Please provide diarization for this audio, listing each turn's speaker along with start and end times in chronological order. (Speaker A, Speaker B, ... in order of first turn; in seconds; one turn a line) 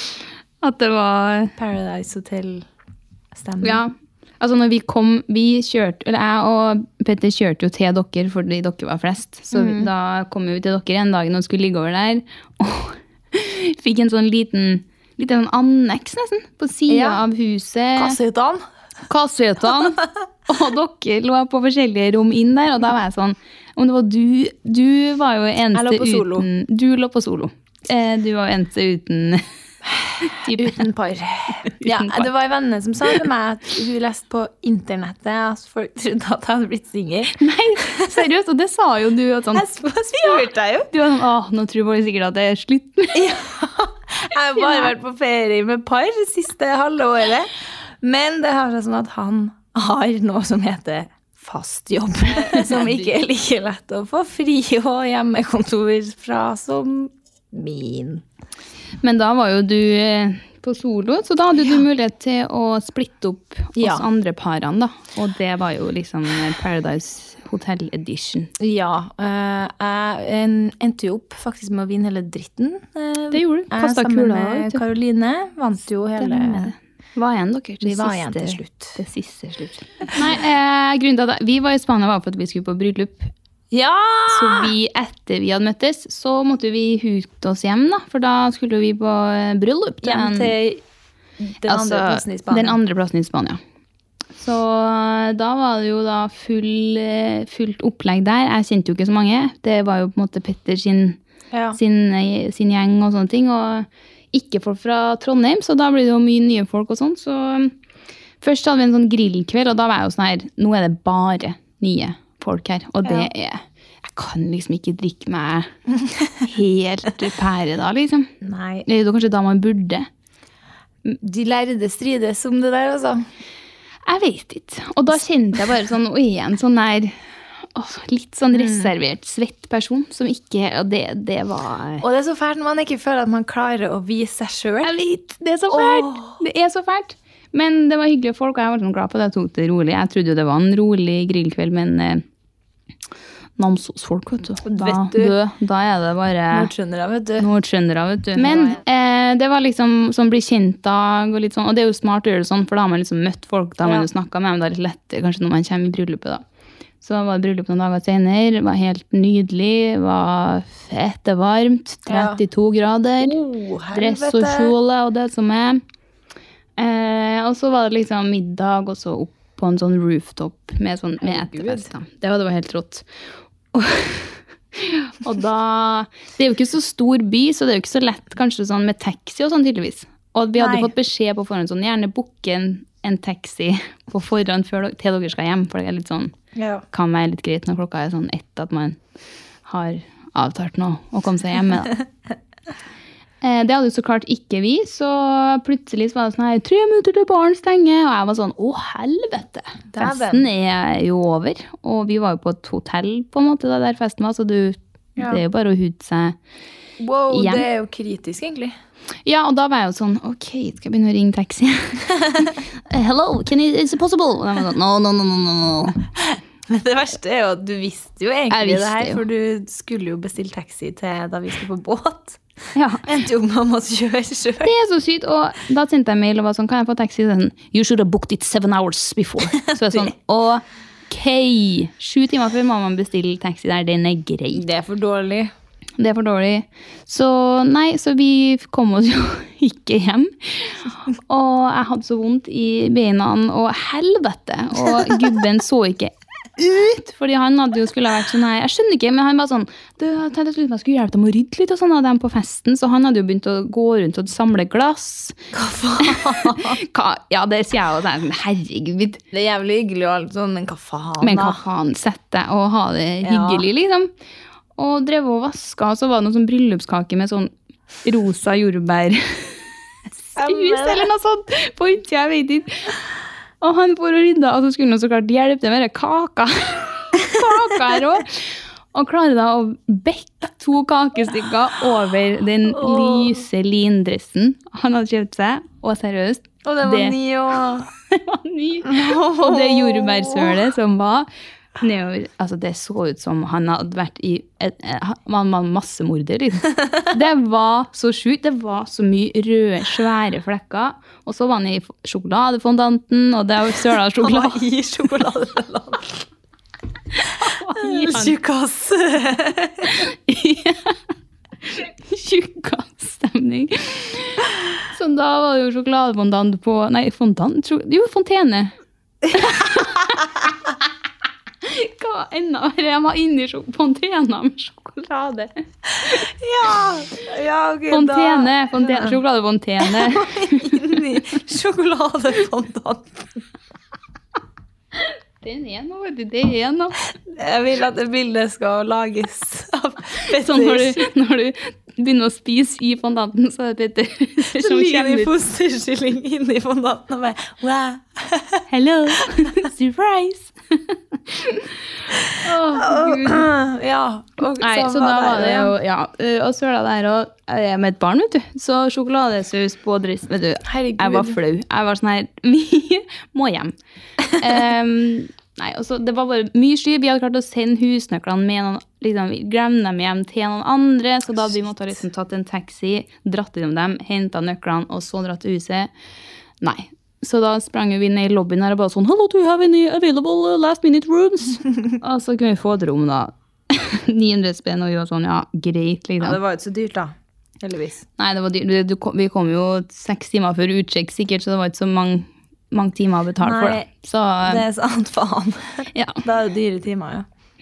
Speaker A: 0.6-1.6
Speaker B: 1.6-2.7
Speaker B: 3.3-3.8
Speaker A: 3.6-18.2
Speaker B: 9.5-9.9
Speaker B: 16.9-17.2
Speaker B: 18.0-18.6
Speaker A: 19.1-29.4
Speaker B: 25.7-26.5
Speaker B: 29.9-38.2
Speaker A: 30.2-30.8
Speaker A: 31.6-32.3
Speaker A: 37.3-39.6
Speaker B: 39.5-40.9
Speaker A: 40.2-43.3
Speaker B: 43.1-58.2
Speaker A: 44.6-44.9
Speaker A: 52.3-53.0
Speaker A: 59.0-68.5
Speaker B: 63.8-64.1
Speaker B: 68.6-76.7
Speaker A: 73.3-74.8
Speaker A: 76.2-83.3
Speaker B: 77.8-79.0
Speaker B: 83.7-84.7
Speaker A: 84.3-90.5
Speaker B: 90.0-90.8
Speaker B: 91.4-92.8
Speaker A: 91.6-93.6
Speaker A: 94.4-101.2
Speaker B: 101.5-101.8
Speaker A: 101.7-107.7
Speaker A: 108.4-115.7
Speaker B: 113.0-113.3
Speaker A: 116.3-118.3
Speaker B: 118.4-118.9
Speaker A: 118.8-120.1
Speaker B: 121.1-123.2
Speaker A: 124.1-127.2
Speaker A: 127.8-132.1
Speaker B: 128.5-128.9
Speaker B: 132.0-134.9
Speaker A: 134.8-142.2
Speaker B: 135.7-136.4
Speaker A: 143.6-146.7
Speaker B: 144.6-145.4
Speaker B: 146.5-147.5
Speaker A: 147.4-156.4
Speaker B: 148.3-148.8
Speaker A: 157.0-163.4
Speaker B: 162.1-162.4
Speaker B: 163.2-164.7
Speaker A: 163.9-165.8
Speaker A: 166.8-173.1
Speaker B: 171.2-171.9
Speaker A: 173.7-186.3
Speaker B: 180.6-180.9
Speaker B: 186.6-186.8
Speaker A: 186.9-189.0
Speaker A: 189.7-192.0
Speaker A: 193.4-206.4
Speaker B: 199.9-200.5
Speaker B: 207.0-208.7
Speaker A: 207.3-207.7
Speaker A: 209.3-216.1
Speaker B: 216.2-222.4
Speaker A: 218.5-219.2
Speaker A: 222.8-223.1
Speaker B: 223.0-224.7
Speaker A: 224.6-234.7
Speaker B: 229.5-230.1
Speaker B: 234.5-235.5
Speaker A: 236.0-255.4
Speaker B: 255.5-256.8
Speaker A: 256.0-259.2
Speaker B: 259.3-261.6
Speaker A: 261.2-264.1
Speaker B: 263.2-263.7
Speaker A: 264.8-267.5
Speaker A: 268.0-269.6
Speaker A: 270.3-272.9
Speaker B: 270.4-271.1
Speaker A: 273.6-287.2
Speaker B: 282.7-283.4
Speaker B: 286.6-287.9
Speaker A: 288.1-291.3
Speaker B: 288.8-290.7
Speaker A: 291.8-304.6
Speaker B: 304.2-306.3
Speaker A: 307.2-308.4
Speaker B: 307.8-309.9
Speaker A: 309.9-311.0
Speaker A: 311.7-318.7
Speaker A: 319.3-320.8
Speaker B: 319.4-319.9
Speaker A: 321.6-325.5
Speaker B: 326.0-329.2
Speaker A: 327.9-331.0
Speaker B: 329.8-333.4
Speaker A: 334.9-337.0
Speaker B: 337.2-341.1
Speaker A: 340.2-345.3
Speaker B: 344.5-348.7
Speaker A: 348.7-353.5
Speaker B: 349.2-349.5
Speaker B: 352.1-355.7
Speaker A: 354.6-363.7
Speaker B: 360.6-361.4
Speaker A: 364.3-375.9
Speaker A: 376.6-386.4
Speaker B: 386.2-388.1
Speaker A: 388.2-394.6
Speaker B: 393.4-393.9
Speaker B: 394.4-397.3
Speaker A: 395.9-396.2